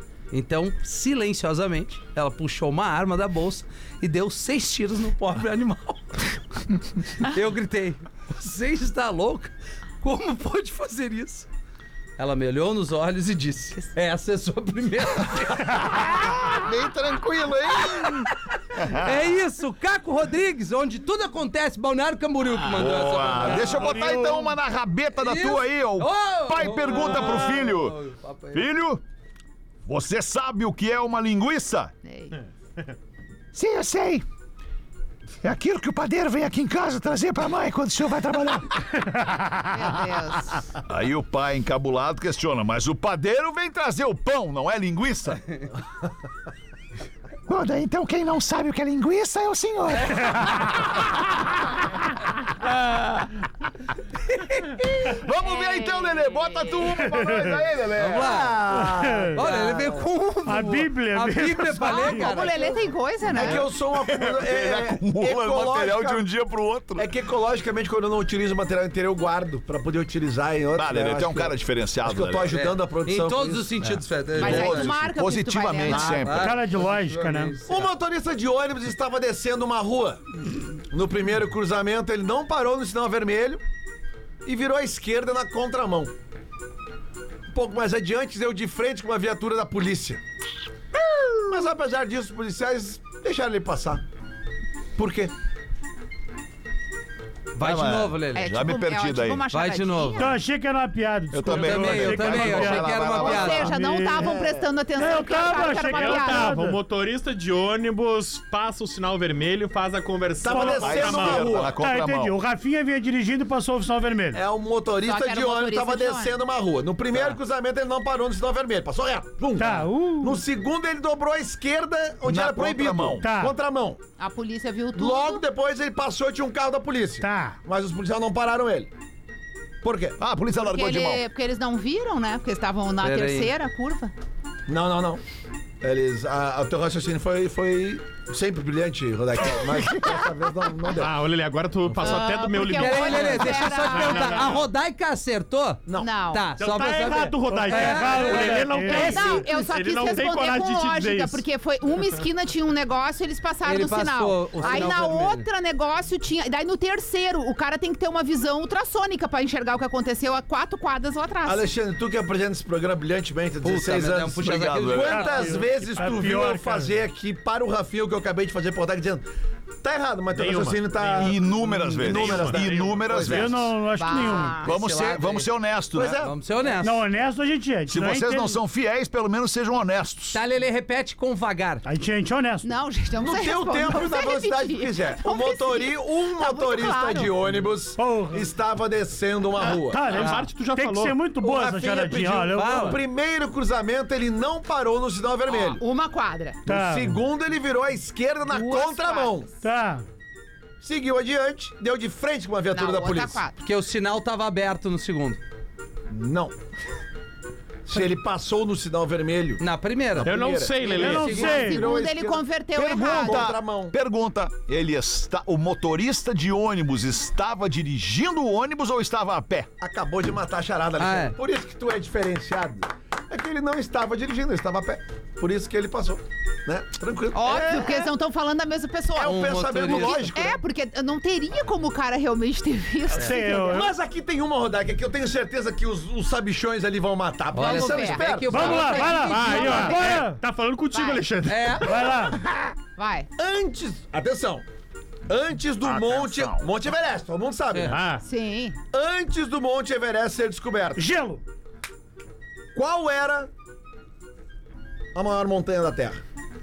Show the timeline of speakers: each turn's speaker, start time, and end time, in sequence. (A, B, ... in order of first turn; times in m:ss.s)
0:00.3-0:11.5 A
0:12.2-0:16.4 A
0:16.1-0:19.3 B
0:18.8-0:24.0 A
0:22.7-0:29.0 B
0:23.8-0:24.5 C
0:25.2-0:28.6 A
0:29.8-0:31.9 B
0:32.0-0:32.4 D
0:33.5-0:34.2 B
0:35.4-0:38.9 B
0:39.2-0:39.5 C
0:39.7-0:40.6 D
0:40.8-0:45.4 B
0:47.5-0:50.8 B
0:50.2-0:50.8 C
0:54.4-0:54.7 A
0:55.0-0:58.4 B
0:55.4-0:56.9 D
0:57.0-0:57.5 C
0:57.9-0:58.7 A
0:58.2-1:00.0 E
0:58.8-0:59.4 C
0:59.3-1:02.8 A
1:00.4-1:02.4 C
1:01.8-1:03.6 D
1:03.3-1:06.2 E
1:03.9-1:07.1 B
1:07.0-1:14.0 E
1:10.7-1:12.6 B
1:12.5-1:14.9 A
1:14.4-1:16.6 B
1:14.4-1:16.2 D
1:15.8-1:16.5 E
1:16.2-1:17.9 A
1:16.3-1:17.6 C
1:17.6-1:20.2 E
1:20.9-1:23.6 E
1:24.4-1:26.1 E
1:27.5-1:30.2 E
1:31.3-1:34.0 E
1:35.0-1:35.3 E
1:37.5-1:38.5 A
1:37.6-1:39.4 B
1:38.3-1:40.4 D
1:39.5-1:40.4 A
1:40.2-1:44.3 C
1:41.3-1:43.7 B
1:41.4-1:43.7 A
1:43.1-1:46.5 D
1:44.1-1:44.7 E
1:44.9-1:46.8 C
1:45.9-1:51.7 F
1:50.4-1:51.8 E
1:50.5-1:51.1 C
1:50.7-1:52.3 B
1:51.8-1:54.4 C
1:54.3-2:04.0 E
1:55.0-1:56.3 D
1:59.6-2:00.4 C
2:02.2-2:03.3 B
2:03.2-2:03.5 C
2:04.2-2:05.4 D
2:04.9-2:08.9 E
2:07.2-2:07.6 C
2:09.8-2:10.2 E
2:10.2-2:11.2 B
2:10.6-2:14.1 D
2:13.0-2:13.5 A
2:14.7-2:15.2 E
2:15.8-2:21.1 E
2:20.9-2:24.7 F
2:21.9-2:22.2 E
2:22.0-2:24.6 D
2:22.7-2:29.4 A
2:25.9-2:26.1 E
2:26.0-2:26.4 D
2:26.6-2:31.4 F
2:26.8-2:29.4 C
2:28.3-2:41.6 D
2:33.6-2:35.4 A
2:34.6-2:35.0 E
2:41.4-2:49.2 E
2:43.6-2:45.5 A
2:44.4-2:45.2 B
2:45.0-2:46.9 C
2:49.8-2:53.6 E
2:50.3-2:53.3 F
2:51.2-2:53.7 B
2:53.2-2:54.7 C
2:53.9-2:54.7 D
2:54.6-2:55.5 A
2:54.6-2:56.3 B
2:55.9-2:56.3 E
2:56.2-2:57.1 A
2:56.8-2:58.6 C
2:57.9-3:00.4 B
3:00.3-3:01.8 A
3:01.8-3:02.7 C
3:02.6-3:07.3 D
3:03.2-3:10.1 E
3:08.0-3:08.5 C
3:09.7-3:13.0 C
3:10.0-3:11.2 F
3:11.4-3:15.8 E
3:12.5-3:13.0 A
3:15.5-3:16.6 D
3:16.6-3:17.2 C
3:16.6-3:19.5 E
3:18.5-3:19.4 D
3:19.6-3:20.0 C
3:20.8-3:23.4 E
3:22.7-3:23.6 D
3:23.6-3:25.4 A
3:26.1-3:26.5 E
3:27.8-3:29.6 E
3:29.6-3:31.7 A
3:30.2-3:33.9 E
3:30.2-3:31.6 F
3:30.9-3:31.9 C
3:31.4-3:33.5 D
3:32.8-3:39.7 B
3:39.8-3:48.1 E
3:41.0-3:41.4 A
3:47.3-3:53.5 D
3:49.2-3:50.6 E
3:49.2-3:50.3 A
3:53.1-3:59.0 E
3:53.2-3:53.9 C
3:57.5-4:00.1 A
3:57.6-4:00.2 D
3:58.5-4:00.4 C
3:59.3-4:01.8 F
4:00.9-4:01.2 D
4:01.4-4:02.1 A
4:01.8-4:02.4 C
4:02.2-4:02.7 E
4:03.0-4:03.3 D
4:03.4-4:04.6 E
4:05.3-4:08.0 E
4:05.8-4:06.7 B
4:07.7-4:08.0 A
4:07.9-4:08.2 F
4:08.2-4:08.8 D
4:08.9-4:11.1 E
4:11.0-4:11.4 C
4:12.7-4:13.5 E
4:15.1-4:16.2 E